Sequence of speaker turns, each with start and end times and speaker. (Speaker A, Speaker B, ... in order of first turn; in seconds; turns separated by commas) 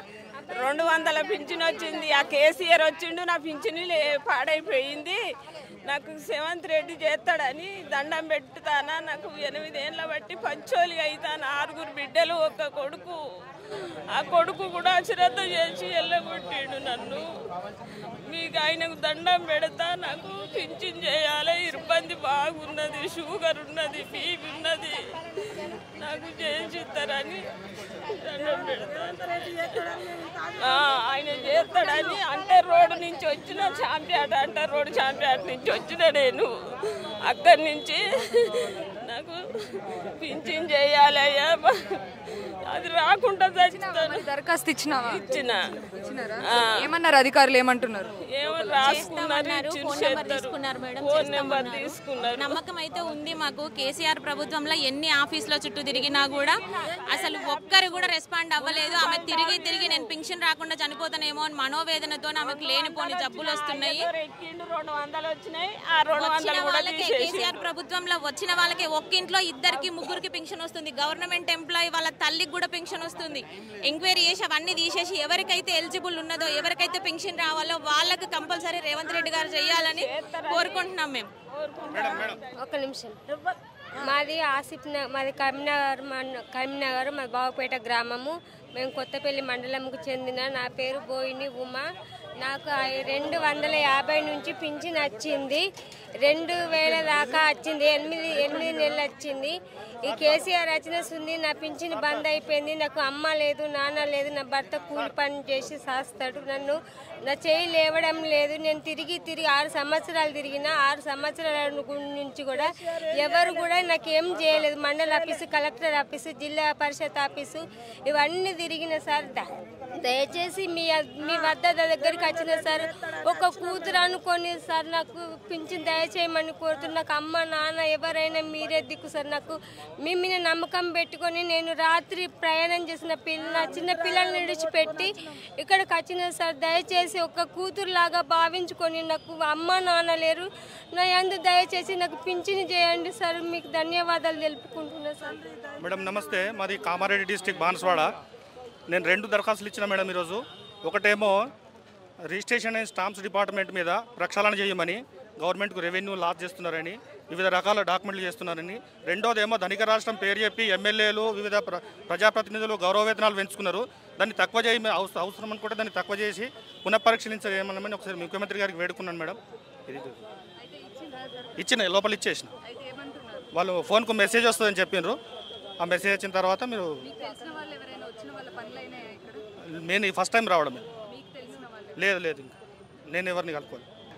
Speaker A: 0.4-2.6, Speaker B: 0.6-5.2, Speaker B: 5.9-13.2, Speaker B: 14.1-17.2, Speaker B: 18.1-36.5, Speaker B: 37.2-41.7, Speaker B: 42.3-44.3, Speaker C: 43.7-45.4, Speaker B: 45.0-45.6, Speaker C: 45.9-48.8, Speaker B: 46.4-46.9, Speaker B: 48.2-52.5, Speaker D: 48.8-56.6, Speaker B: 56.0-60.1, Speaker D: 57.1-64.1, Speaker B: 62.4-67.5, Speaker D: 66.1-81.3, Speaker B: 79.2-80.9, Speaker B: 81.5-82.4, Speaker E: 81.9-82.4, Speaker A: 82.6-83.2, Speaker A: 84.0-91.8, Speaker A: 92.4-95.6, Speaker A: 96.2-99.5, Speaker A: 100.1-119.5, Speaker E: 101.9-102.2, Speaker A: 120.0-145.4, Speaker E: 145.8-148.1, Speaker E: 148.9-151.4, Speaker E: 152.3-170.2, Speaker C: 170.6-171.5, Speaker E: 171.6-172.5, Speaker C: 172.7-173.4, Speaker E: 173.5-175.2, Speaker E: 175.8-177.0, Speaker C: 177.0-179.4, Speaker E: 179.9-180.9, Speaker C: 181.1-182.0, Speaker E: 182.0-182.6, Speaker E: 183.1-183.9